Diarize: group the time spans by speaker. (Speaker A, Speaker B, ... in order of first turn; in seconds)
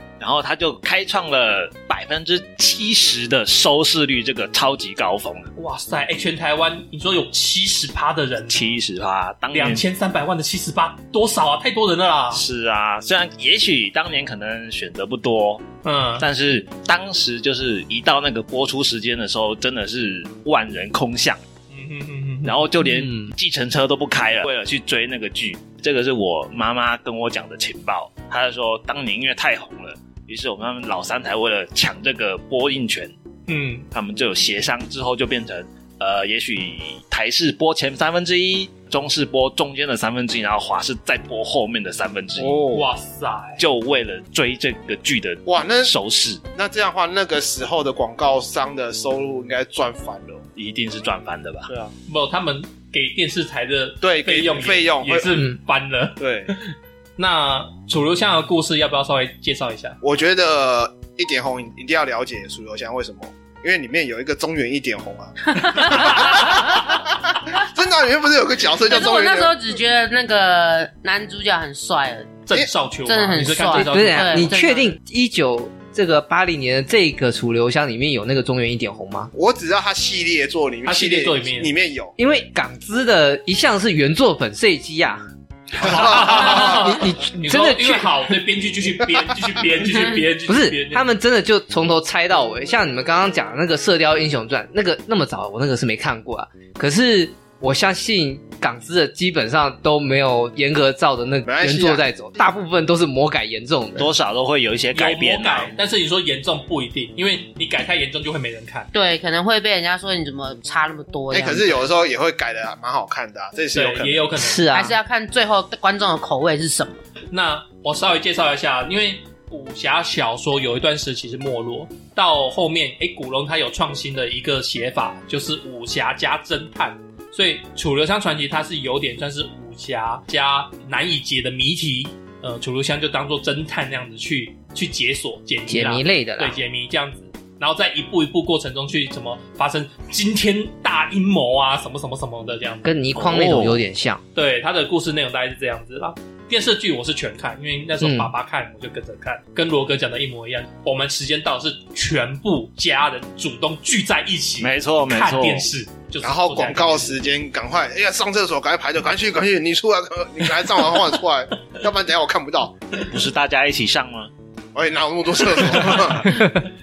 Speaker A: 0.2-5.5, 8.5-9.8, 12.3-15.7, 16.2-21.4, 22.4-33.1, 33.9-42.7, 43.6-46.4, 50.5-51.7, 104.0-105.8, 143.1-143.8, 154.6-155.7, 163.0-164.3
Speaker B: 5.5-8.6, 9.5-12.4, 15.8-16.2, 21.7-22.6, 33.5-33.9, 42.7-43.6, 52.1-60.0, 72.5-74.5, 80.8-81.7, 85.7-91.0, 104.9-108.9, 113.7-114.6, 117.3-142.9, 144.3-157.2
Speaker C: 22.8-23.3, 73.7-79.3, 82.2-85.2, 85.9-88.1, 90.5-104.1, 114.3-115.0, 135.7-136.6, 142.8-144.2, 148.0-148.3
Speaker D: 42.4-42.9, 45.5-45.9, 46.5-50.5, 51.7-51.9, 54.0-55.3, 56.2-56.5, 60.0-69.6, 79.3-82.1, 85.8-86.8, 101.5-102.0, 111.3-114.2, 156.2-162.8, 164.7-166.3
Speaker E: 65.5-66.8, 68.8-72.5, 73.0-74.9, 108.9-111.7, 114.7-117.0